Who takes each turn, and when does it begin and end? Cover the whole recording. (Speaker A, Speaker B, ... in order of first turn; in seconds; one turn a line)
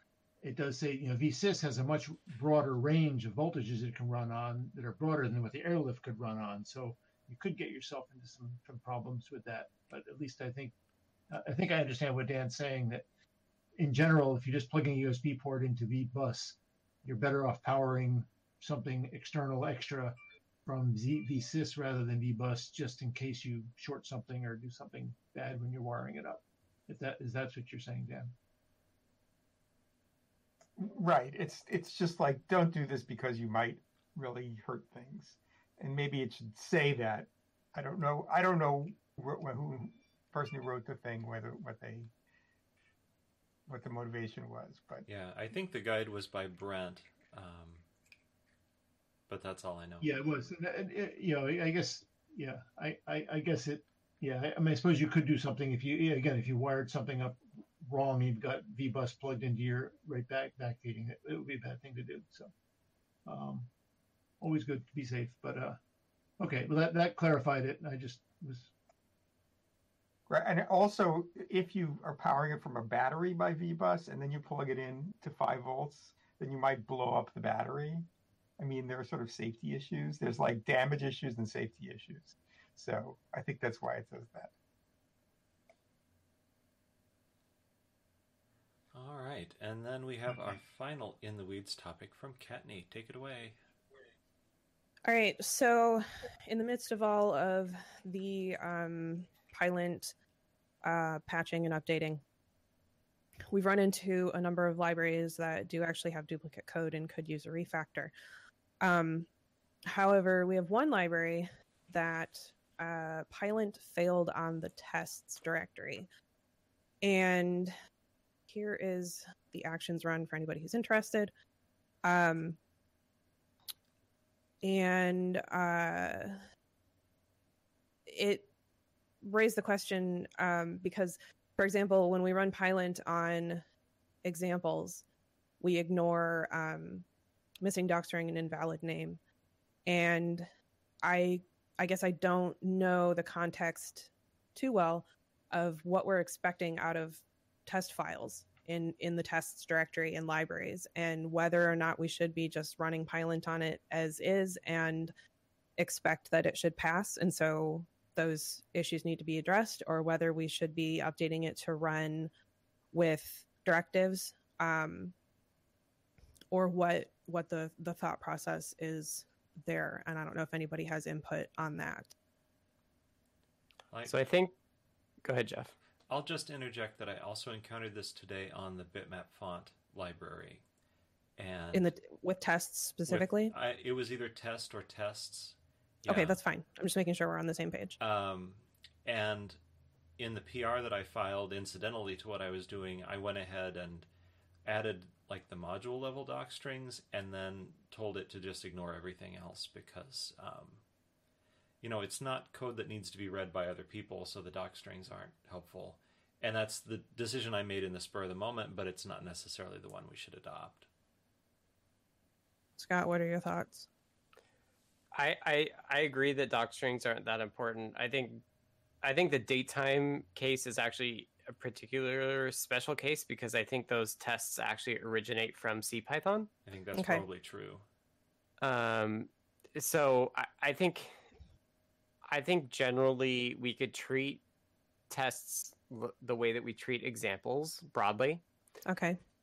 Speaker A: 0.4-10.7
Speaker A: 11.3-13.1
Speaker A: 13.8-28.3
Speaker B: 30.8-42.1
Speaker B: 43.7-45.0
Speaker C: 45.0-47.8
Speaker C: 49.3-50.1
Speaker A: 50.0-62.5
Speaker A: 63.2-63.7
Speaker A: 64.4-65.8
Speaker A: 66.4-68.7
Speaker B: 70.3-78.0
Speaker B: 78.6-84.5
Speaker C: 88.9-93.6
Speaker D: 95.0-100.1
Speaker D: 100.8-102.2
Speaker D: 103.5-108.1
Speaker D: 108.8-109.3
Speaker D: 109.9-116.1
Speaker D: 117.0-117.7
Speaker D: 118.5-121.3
Speaker D: 122.0-122.6
Speaker D: 124.6-126.4
Speaker D: 128.1-128.5
Speaker D: 129.2-133.6
Speaker D: 134.2-135.0
Speaker D: 135.6-137.0
Speaker D: 137.6-139.2
Speaker D: 139.8-140.5
Speaker D: 141.0-155.1
Speaker D: 155.8-162.3
Speaker D: 162.9-165.1
Speaker D: 166.5-172.1
Speaker E: 174.1-174.5
Speaker E: 175.2-175.7
Speaker C: 176.1-180.6
Speaker C: 181.4-181.9
Speaker D: 181.7-183.5
Speaker C: 183.1-186.4
Speaker D: 186.1-187.9
Speaker C: 188.0-189.6
Speaker C: 190.2-194.1
Speaker C: 194.6-200.8
Speaker C: 201.8-210.9
Speaker D: 212.8-213.9
Speaker E: 215.1-218.4
Speaker E: 219.0-226.5
Speaker C: 226.7-227.8
Speaker D: 226.9-227.2
Speaker E: 228.6-231.2
Speaker E: 232.3-234.4
Speaker E: 235.1-238.4
Speaker D: 238.8-239.2